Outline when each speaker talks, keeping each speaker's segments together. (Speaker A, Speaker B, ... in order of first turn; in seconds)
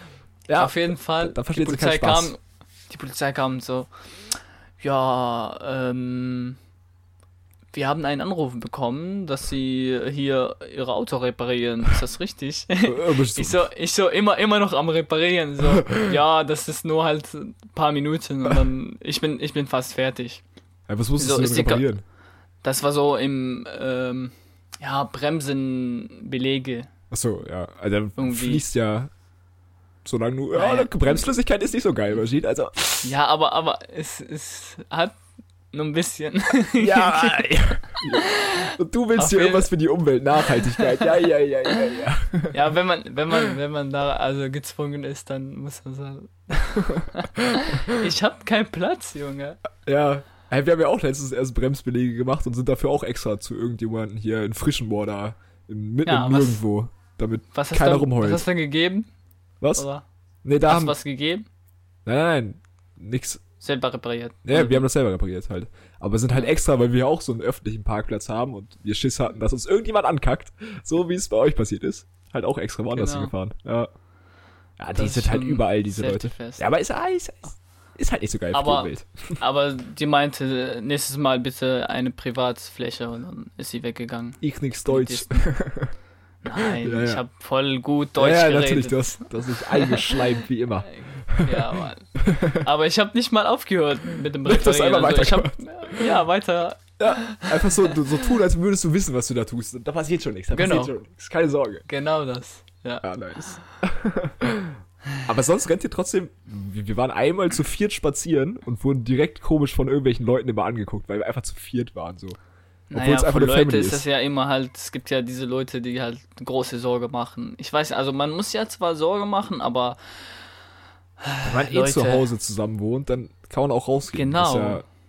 Speaker A: 0.5-2.3, 12.8-13.6, 15.8-16.2, 20.9-22.0, 27.1-29.1, 30.0-33.1, 36.8-42.6, 46.8-47.9, 49.8-58.4, 59.6-59.9, 60.4-60.9, 62.0-63.4, 64.5-73.9, 74.8-79.4, 84.4-85.9, 86.6-87.2, 88.2-92.7, 94.4-96.2, 97.0-101.8, 103.0-112.4, 112.9-114.0, 121.4-124.8
Speaker B: 0.6-2.4, 2.9-3.9, 4.8-6.6, 7.7-20.4, 21.2-21.8, 22.6-26.9, 28.2-28.6, 30.5-30.9, 33.0-35.1, 35.7-39.7, 40.5-41.2, 42.5-49.6, 56.0-56.6, 57.5-59.1, 59.7-60.0, 60.6-61.5, 63.6-64.9, 72.9-73.3, 74.9-76.6, 78.5-85.4, 86.4-90.2, 90.9-98.2, 100.5-101.0, 101.9-103.0, 112.9-120.0, 121.2-122.3, 124.1-124.8